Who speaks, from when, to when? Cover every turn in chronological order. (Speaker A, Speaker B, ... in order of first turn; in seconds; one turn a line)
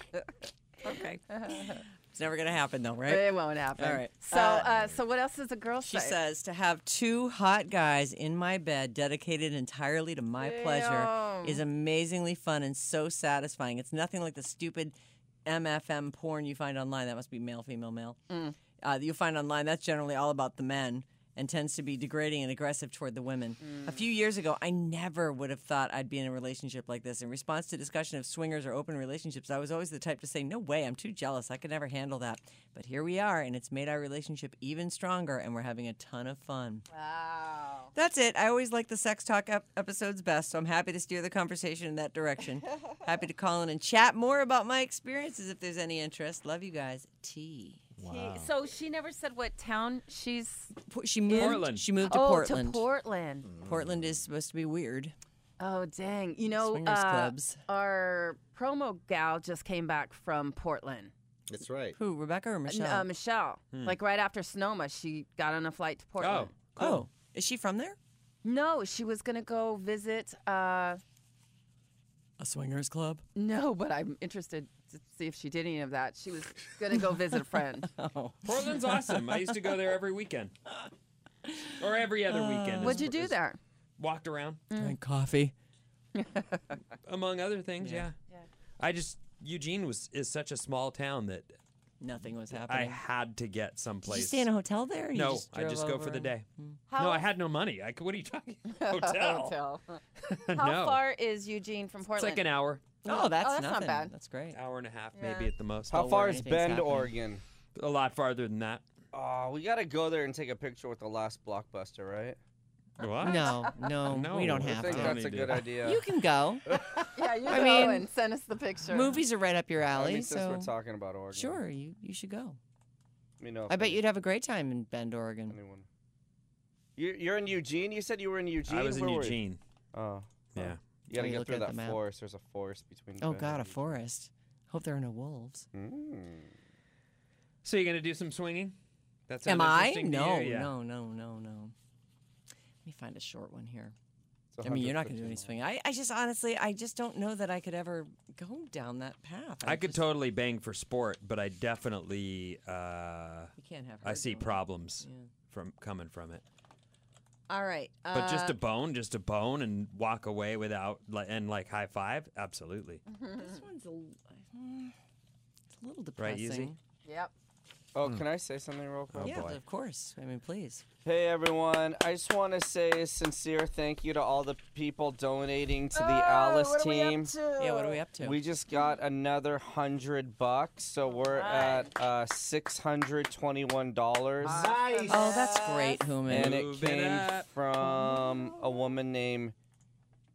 Speaker A: 0.8-4.7
Speaker B: 0.9-1.8
Speaker B: 3.1-6.2
Speaker A: 5.8-18.2
Speaker B: 10.4-11.6
Speaker B: 18.3-18.6
Speaker A: 18.8-36.9
Speaker B: 23.6-24.0
Speaker B: 36.9-37.9
Speaker A: 37.9-47.8
Speaker C: 48.0-48.5
Speaker B: 48.0-50.7
Speaker A: 50.8-52.9
Speaker B: 51.3-53.5
Speaker D: 51.3-51.9
Speaker C: 53.4-54.2
Speaker A: 53.6-55.1
Speaker B: 55.6-61.1
Speaker A: 56.6-57.6
Speaker C: 61.5-62.0
Speaker A: 62.0-63.1
Speaker B: 62.7-66.5
Speaker D: 63.7-64.0
Speaker D: 66.2-67.0
Speaker A: 66.8-68.0
Speaker B: 68.4-71.0
Speaker A: 72.4-73.2
Speaker B: 73.3-77.9
Speaker A: 77.9-79.5
Speaker D: 78.4-80.5
Speaker A: 81.5-81.7
Speaker D: 81.8-83.3
Speaker A: 82.3-83.1
Speaker B: 82.8-83.6
Speaker D: 84.0-84.6
Speaker B: 84.7-85.0
Speaker A: 84.8-85.5
Speaker B: 86.2-86.6
Speaker D: 87.1-88.2
Speaker A: 87.8-88.1
Speaker D: 88.8-91.5
Speaker A: 92.0-93.0
Speaker D: 92.7-94.5
Speaker A: 94.0-96.8
Speaker D: 95.1-99.5
Speaker B: 96.9-97.3
Speaker B: 98.7-100.0
Speaker D: 100.2-101.0
Speaker B: 100.5-102.4
Speaker D: 102.1-102.9
Speaker B: 103.0-104.1
Speaker A: 103.0-104.6
Speaker D: 104.5-106.1
Speaker B: 105.1-105.5
Speaker E: 105.9-107.4
Speaker A: 105.9-107.1
Speaker D: 107.7-108.8
Speaker E: 109.1-112.4
Speaker D: 113.0-113.5
Speaker B: 113.0-113.7
Speaker A: 113.2-116.7
Speaker D: 114.1-115.7
Speaker E: 114.6-116.1
Speaker B: 117.1-119.2
Speaker A: 117.5-118.1
Speaker A: 118.9-120.7
Speaker E: 119.9-121.6
Speaker A: 121.3-122.6
Speaker E: 123.4-124.0
Speaker A: 123.7-125.6
Speaker E: 125.5-125.8
Speaker E: 127.0-129.4
Speaker D: 128.7-129.6
Speaker E: 129.9-130.4
Speaker D: 130.6-130.8
Speaker E: 131.1-134.0
Speaker A: 131.1-132.0
Speaker A: 133.2-135.7
Speaker E: 135.7-136.5
Speaker D: 137.6-138.7
Speaker D: 139.3-140.7
Speaker A: 139.4-141.7
Speaker A: 142.8-143.9
Speaker E: 144.5-145.6
Speaker A: 144.6-150.1
Speaker D: 149.6-153.5
Speaker A: 153.6-155.3
Speaker D: 154.0-156.4
Speaker A: 157.5-158.6
Speaker D: 158.1-163.0
Speaker B: 163.1-163.6
Speaker A: 163.4-164.9
Speaker A: 165.7-166.8
Speaker D: 166.2-166.7
Speaker B: 167.1-167.3
Speaker E: 167.9-169.6
Speaker D: 169.1-169.6
Speaker A: 169.2-170.8
Speaker E: 171.0-177.3
Speaker B: 175.9-178.0
Speaker A: 177.6-178.4
Speaker E: 178.2-184.8
Speaker B: 181.1-181.9
Speaker C: 184.4-185.5
Speaker B: 184.4-186.1
Speaker A: 185.1-186.6
Speaker D: 186.2-187.5
Speaker E: 186.3-189.5